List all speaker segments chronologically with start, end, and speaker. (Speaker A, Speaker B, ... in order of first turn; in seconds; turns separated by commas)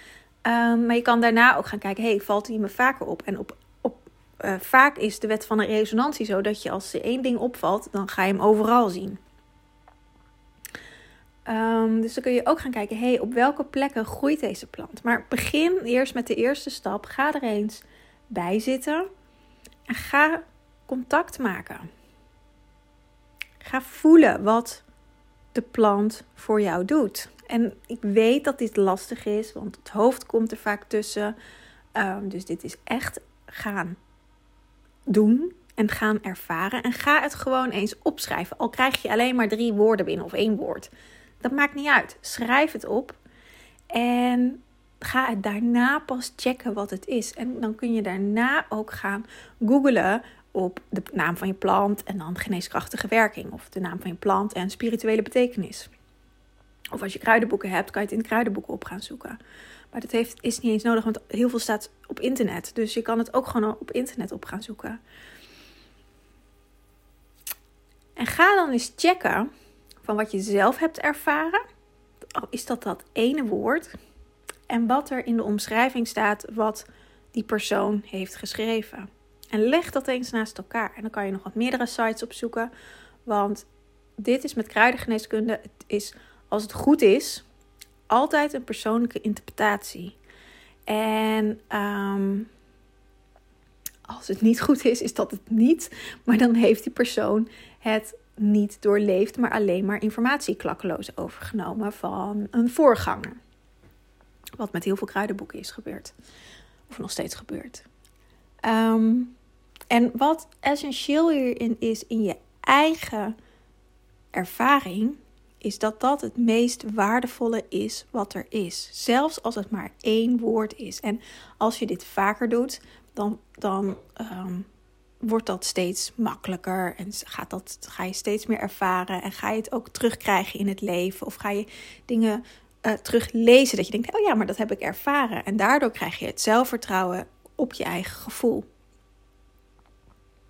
Speaker A: 0.4-9.2, Speaker A: 11.4-19.1, Speaker A: 19.9-21.9, Speaker A: 23.6-24.8, Speaker A: 25.5-31.3, Speaker A: 31.9-34.0, Speaker A: 35.1-43.2, Speaker A: 43.9-55.9, Speaker A: 56.9-59.4, Speaker A: 59.9-65.0, Speaker A: 68.2-69.5, Speaker A: 70.0-71.6, Speaker A: 72.3-74.0, Speaker A: 74.7-82.7, Speaker A: 83.2-83.7, Speaker A: 84.2-87.4, Speaker A: 88.1-90.2, Speaker A: 90.9-92.5, Speaker A: 94.1-103.4, Speaker A: 104.6-106.1, Speaker A: 106.9-107.8, Speaker A: 108.6-109.3, Speaker A: 109.9-113.3, Speaker A: 114.3-124.7, Speaker A: 125.2-138.7